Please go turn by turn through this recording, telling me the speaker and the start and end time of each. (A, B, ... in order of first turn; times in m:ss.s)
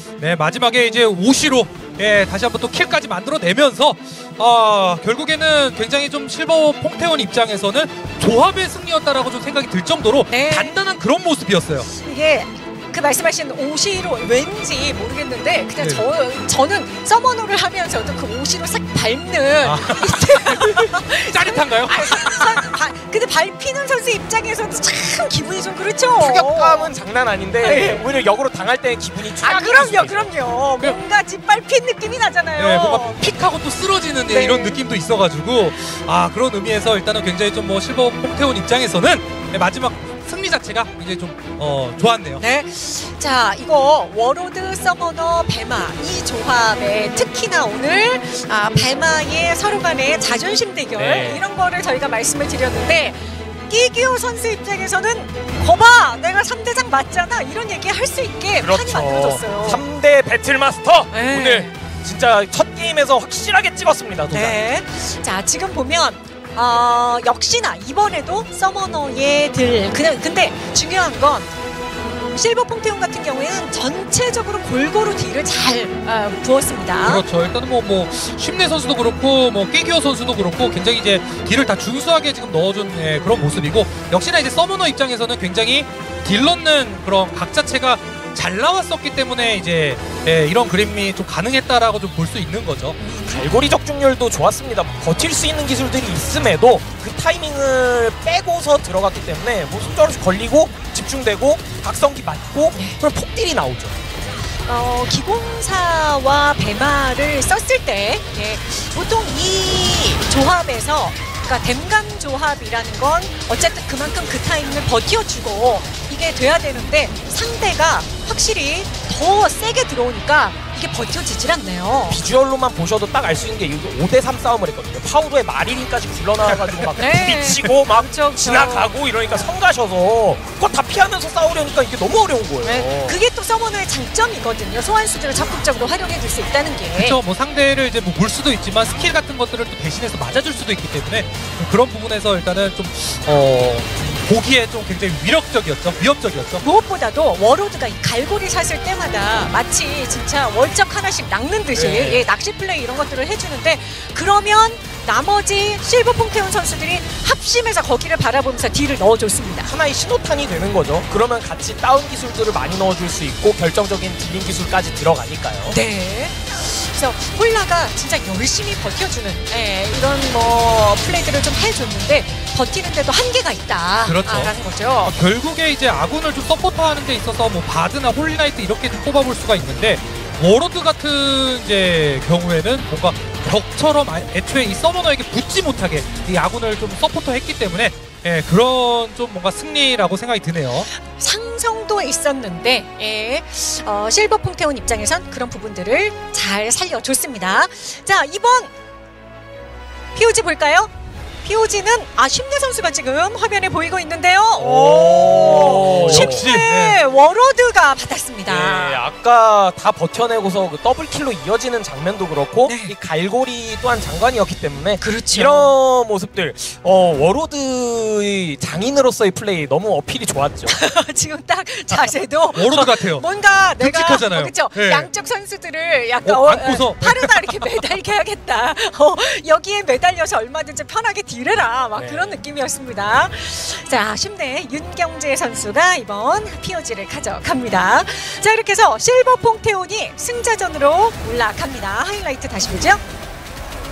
0:00.2-0:11.9 A
0:10.3-0:10.7 B
0:12.0-0:26.9 B
0:15.8-0:16.0 A
0:19.6-0:22.7 A
0:26.2-0:30.3 C
0:27.6-0:28.0 B
0:29.4-0:33.2 B
0:32.6-0:42.4 A
0:34.3-0:34.8 B
0:42.4-0:59.8 B
0:50.9-0:51.4 C
0:58.6-1:04.6 C
1:01.1-1:01.8 B
1:04.3-1:11.5 B
1:12.3-1:17.2 B
1:17.0-1:33.0 A
1:33.0-1:33.4 B
1:33.2-1:44.0 C
1:42.7-1:43.0 B
1:44.7-2:02.2 B
2:02.1-2:13.2 C
2:06.8-2:07.7 A
2:07.0-2:09.0 B
2:12.6-2:17.2 B
2:17.0-2:26.6 A
2:26.6-2:39.7 B
2:31.7-2:32.2 C
2:39.6-2:45.8 C
2:45.7-2:55.1 B
2:54.0-3:10.9 A
3:11.0-3:18.7 B
3:20.1-3:20.9 B
3:21.4-3:29.0 B
3:24.6-3:26.4 C
3:25.3-3:27.0 A
3:28.5-3:40.8 C
3:32.6-3:32.9 B
3:35.0-3:35.7 B
3:40.6-4:03.0 B
3:42.5-3:43.2 A
3:43.8-3:45.1 A
3:46.2-3:47.9 A
3:52.0-3:52.4 C